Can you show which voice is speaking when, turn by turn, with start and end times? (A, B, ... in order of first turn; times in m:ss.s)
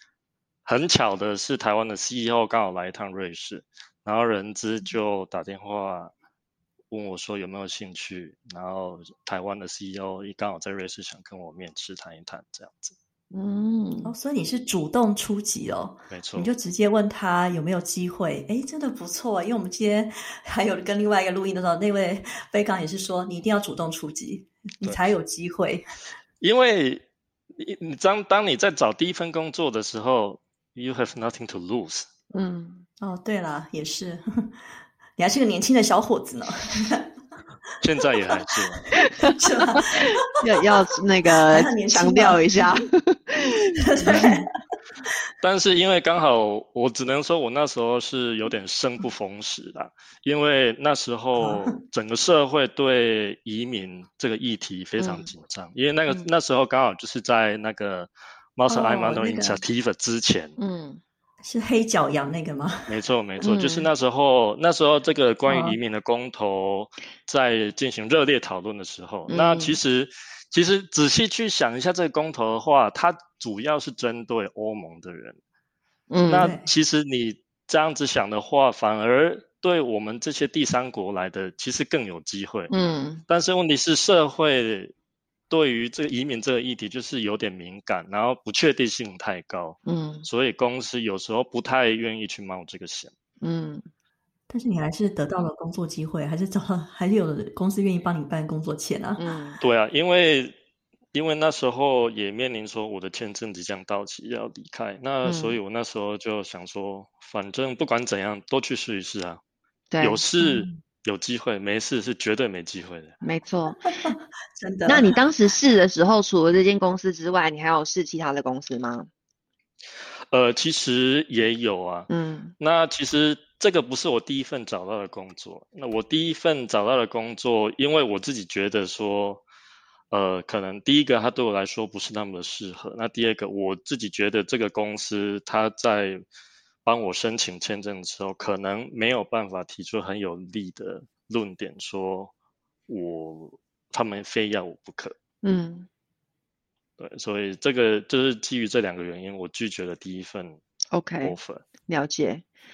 0:00.6-0:06.1 A
0:06.9-0:12.9 A
0:13.3-0:14.1 B
0:14.0-0:25.8 C
0:16.1-0:16.5 A
0:26.4-0:27.0 A
0:27.6-0:32.1 A
0:32.3-0:32.8 B
0:33.0-0:34.5 C
0:35.2-0:37.1 C
0:37.8-0:38.8 A
0:39.2-0:40.2 C
0:40.3-0:44.3 B
0:41.5-0:42.6 C
0:43.8-0:44.4 C
0:45.4-1:00.6 A
0:51.4-0:51.7 C
0:55.0-0:55.3 B
0:58.7-0:59.6 C
1:00.6-1:01.0 B
1:01.4-1:02.9 C
1:02.9-1:15.4 A
1:03.4-1:03.9 B
1:05.5-1:05.7 C
1:09.3-1:09.8 B
1:16.1-1:16.5 B
1:16.2-1:22.7 A
1:16.4-1:16.7 C
1:22.7-1:23.2 B
1:23.3-1:24.9 A
1:25.5-1:33.1 A
1:29.8-1:30.2 B
1:33.4-1:33.8 B
1:34.5-1:39.2 C
1:39.2-1:39.6 B
1:39.6-1:40.5 A
1:41.1-1:49.4 A
1:45.2-1:45.6 B
1:49.9-1:50.2 B
1:50.0-1:53.2 A
1:50.4-1:50.8 C
1:53.2-1:54.1 B
1:54.0-1:55.1 C
1:54.8-1:59.1 B
2:00.3-2:09.4 A
2:02.1-2:02.5 B
2:10.1-2:16.2 A
2:16.8-2:22.3 A
2:22.9-2:25.1 A
2:25.4-2:25.9 B
2:27.0-2:30.6 A
2:30.9-2:31.3 B
2:31.2-2:31.6 A
2:31.9-2:32.4 B